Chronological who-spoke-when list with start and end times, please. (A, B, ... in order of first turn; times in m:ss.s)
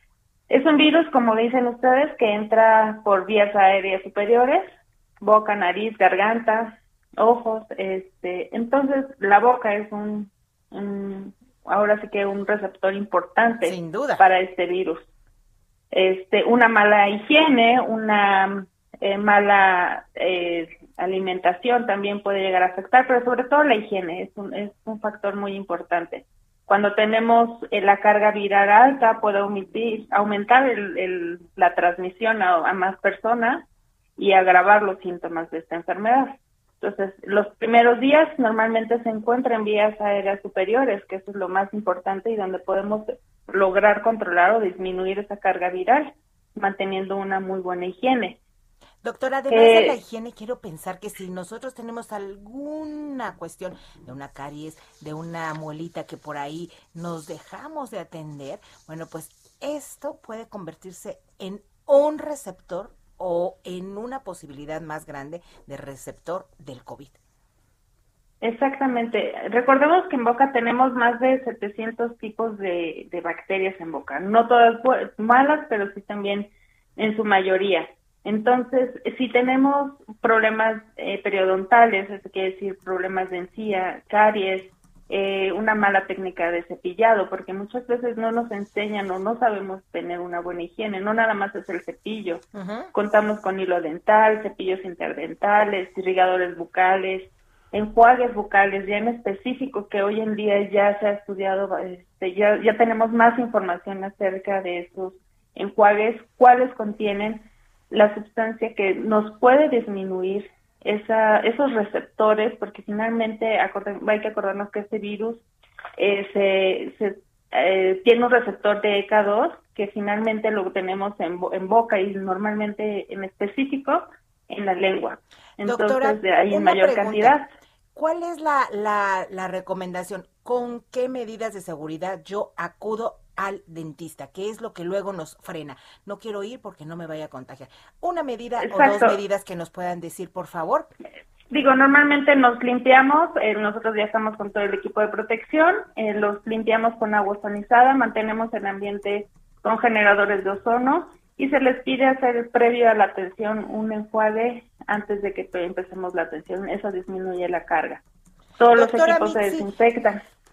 0:00.5-0:15.1 A
0:13.6-0:14.2 B
0:15.9-0:48.4 A
0:49.0-1:07.2 B
0:49.5-0:50.0 A
1:08.4-1:55.4 A
1:32.6-1:32.9 B
1:56.0-2:07.5 A
2:05.6-2:07.4 B
2:08.0-2:20.9 B
2:18.6-2:19.2 A
2:21.5-2:38.0 A
2:38.6-2:40.2 A
2:38.6-2:39.7 B